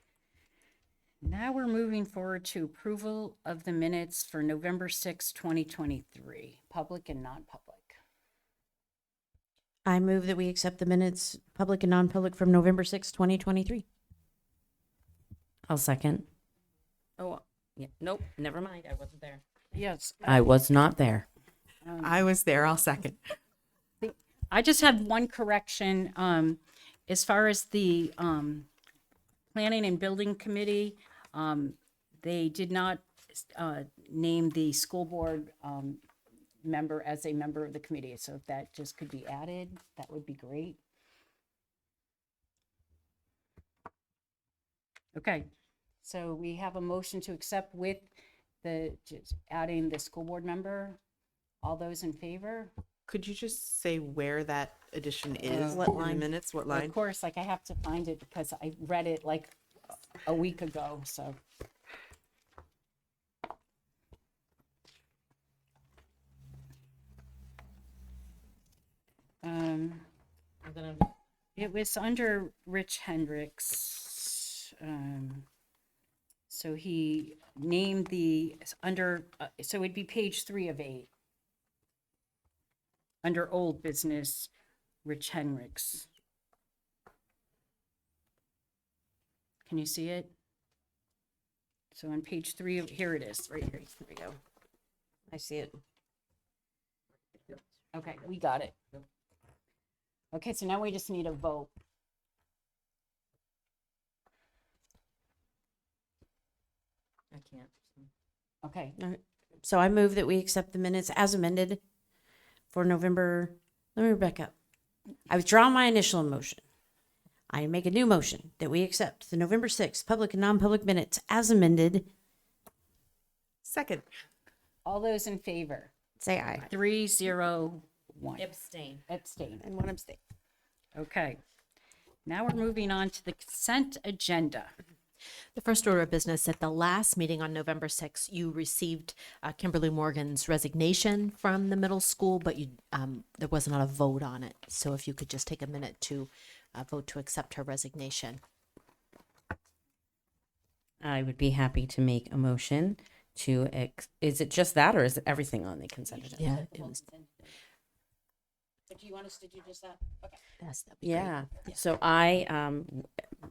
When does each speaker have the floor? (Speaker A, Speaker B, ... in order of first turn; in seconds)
Speaker A: 1.2-8.0, 19.7-20.4, 21.8-22.2, 24.0-28.7, 29.5-36.0, 36.6-40.8, 45.1-45.5, 46.0-48.1, 48.6-51.0, 51.6-52.7, 55.5-56.0, 56.7-59.5, 60.2-61.4, 69.4-70.0, 71.6-75.5, 76.5-81.1, 83.2-84.5, 85.0-86.1, 89.7-90.3, 91.9-93.6, 97.9-98.8, 100.3-101.7, 108.6-109.0, 124.8-125.9, 126.7-128.6, 129.1-129.7, 130.9-131.4, 132.2-134.7, 156.1-157.5, 158.9-160.4
Speaker B: 9.9-13.8, 55.7-56.3, 93.5-94.4, 95.3-95.8, 109.0-111.8, 112.7-114.5, 115.3-116.6, 117.5-122.1, 126.2-126.7, 129.6-130.2
Speaker C: 15.7-16.3, 17.2-19.4, 20.2-21.3, 151.0-156.6, 161.0-163.1
Speaker D: 22.0-23.2, 53.1-57.0, 123.6-124.1
Speaker E: 135.6-148.4, 156.4-156.9, 160.6-161.8